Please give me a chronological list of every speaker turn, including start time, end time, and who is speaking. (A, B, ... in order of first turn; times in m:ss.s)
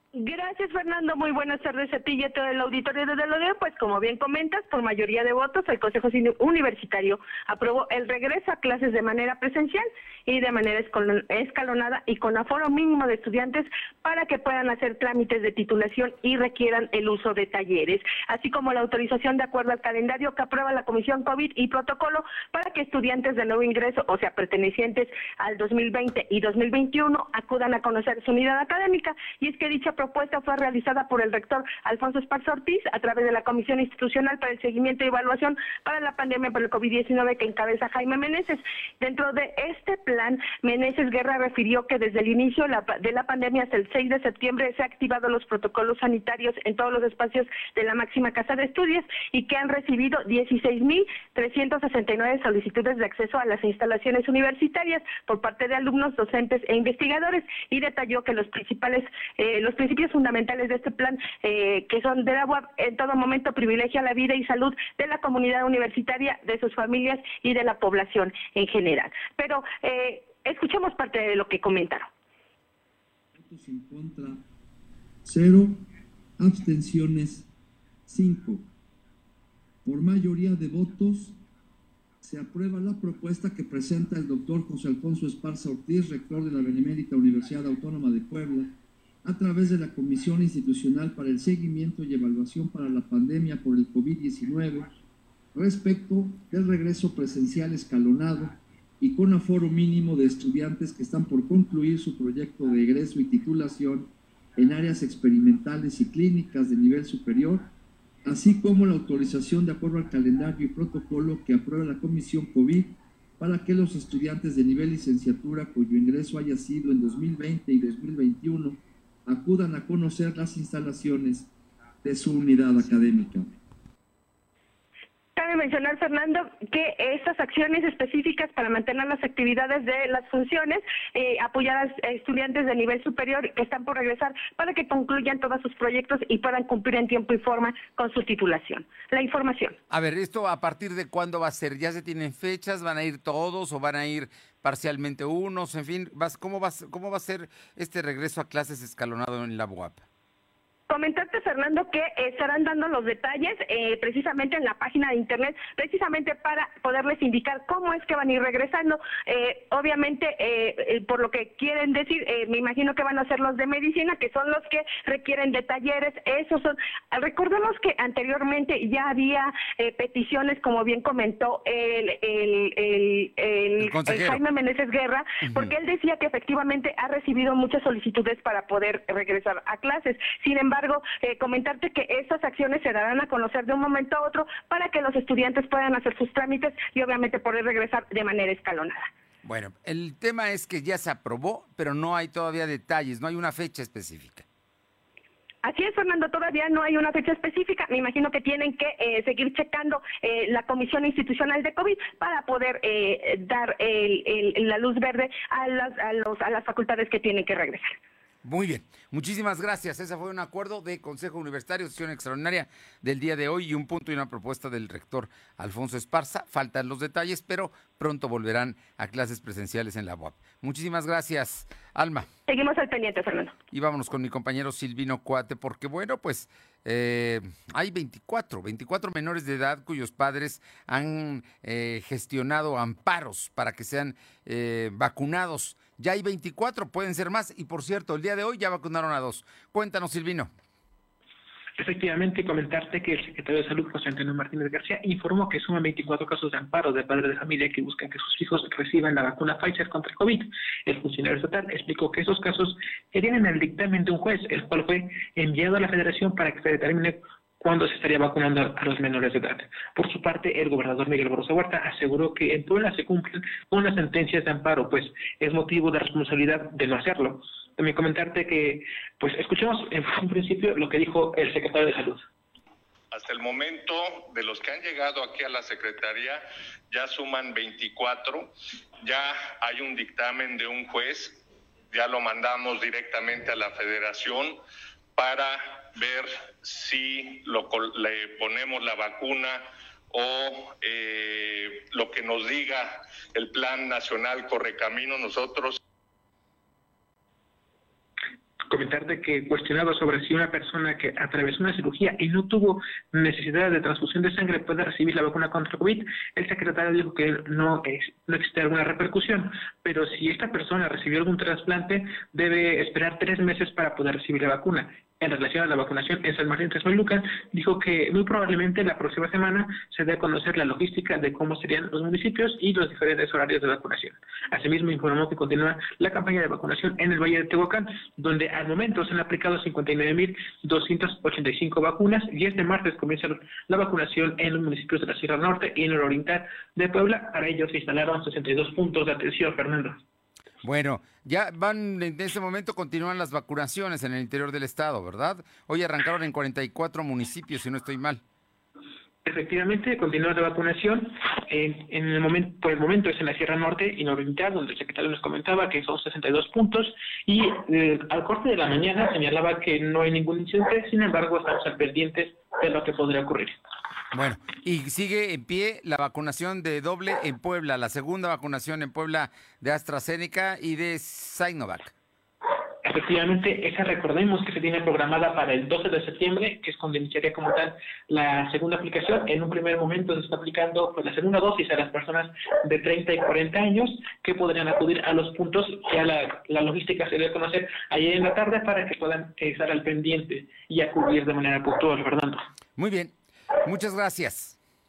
0:00.2-1:12.1 A
1:13.4-1:14.4 B
1:15.2-1:15.8 B
1:16.4-1:17.5 B
1:18.1-1:18.6 B
1:19.8-1:21.4 B
1:22.2-1:34.9 B
1:35.5-1:47.7 B
1:48.2-2:01.5 B
2:02.0-2:03.5 B
2:05.4-2:19.8 A
2:19.9-2:30.0 C
2:30.9-3:09.1 A
2:53.8-2:54.4 C
2:55.4-2:55.7 C
3:09.4-3:14.4 C
3:15.6-3:27.9 A
3:28.4-3:42.3 C
3:42.5-3:43.6 A
3:43.7-4:00.5 C
4:01.8-4:32.3 D
4:33.1-4:44.6 E
4:45.2-4:55.8 E
4:58.7-5:40.0 D
5:40.6-5:48.2 C
5:49.2-6:03.6 D
6:04.1-6:11.9 C
6:12.8-6:32.4 D
6:32.8-6:34.6 C